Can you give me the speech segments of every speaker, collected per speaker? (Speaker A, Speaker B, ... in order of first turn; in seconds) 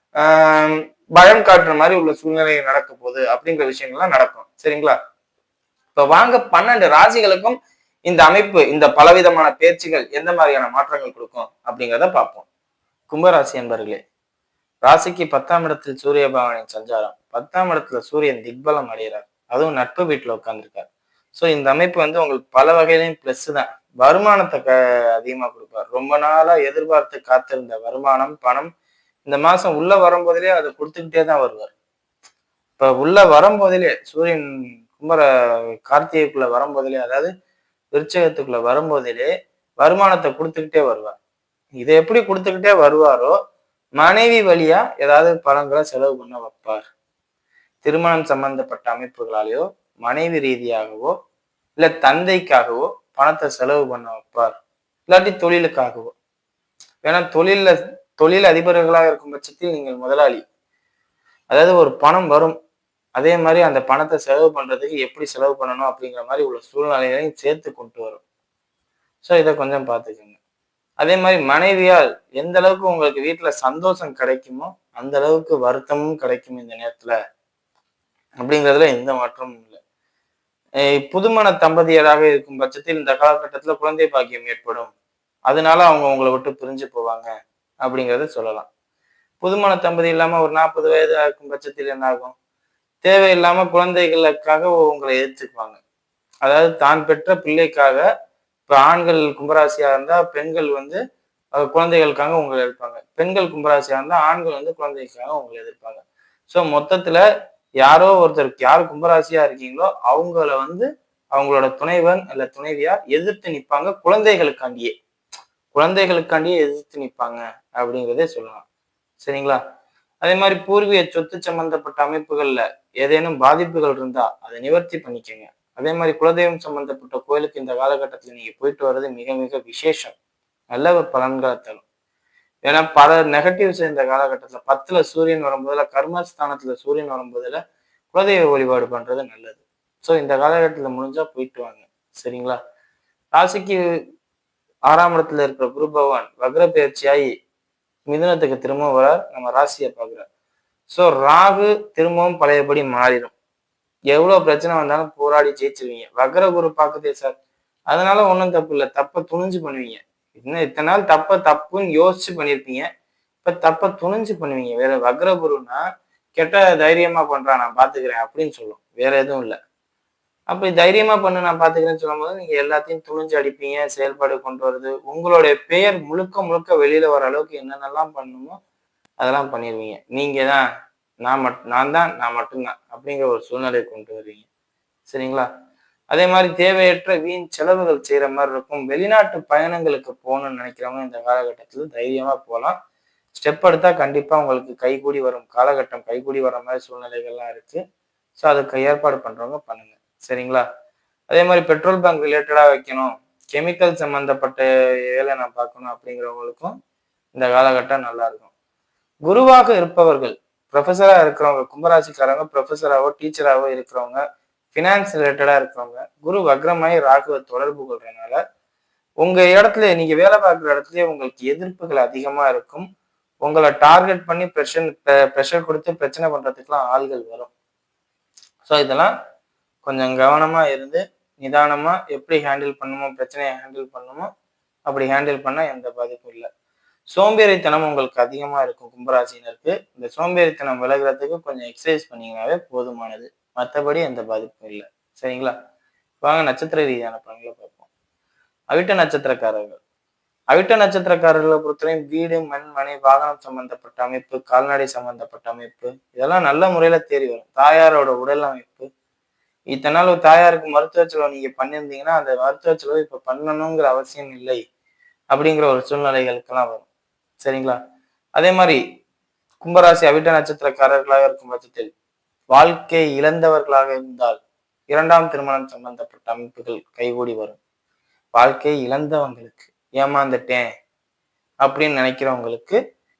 Speaker A: 0.2-5.0, 5.9-7.5, 8.1-12.4, 13.1-14.0, 14.8-28.7, 29.2-31.7, 32.8-35.2, 35.9-37.3, 37.9-41.1, 41.8-43.3, 44.0-46.8, 47.8-51.1, 51.8-54.5, 55.1-56.1, 57.0-60.4, 61.5-62.5, 63.1-68.2, 69.2-70.4, 71.0-77.1, 78.4-79.8, 81.0-84.9, 85.5-87.3, 87.8-88.7, 89.4-92.3, 93.0-95.8, 96.4-98.0, 98.7-101.0, 101.5-107.2, 107.8-114.9, 115.7-118.6, 119.2-119.6, 120.2-130.1, 130.7-131.8, 132.6-137.6, 138.1-142.6, 143.3-143.8, 144.9-147.3, 148.1-150.2, 150.9-153.3, 154.1-157.4, 157.9-162.8, 163.4-165.8, 166.3-169.6, 170.5-178.6, 179.2-180.6, 181.2-184.4, 185.1-185.5, 186.1-192.8, 193.3-197.8, 198.4-200.6, 201.3-206.7, 207.3-208.5, 209.2-214.2, 214.7-218.4, 219.2-222.8, 223.4-227.5, 228.6-229.1, 229.8-234.3, 234.8-236.5, 237.1-245.5, 246.2-247.9, 248.7-249.8, 250.5-258.9, 259.7-264.6, 265.3-266.9, 267.4-267.8, 268.4-268.8, 269.6-271.9, 272.5-274.4, 274.9-277.6, 278.3-280.6, 281.6-282.8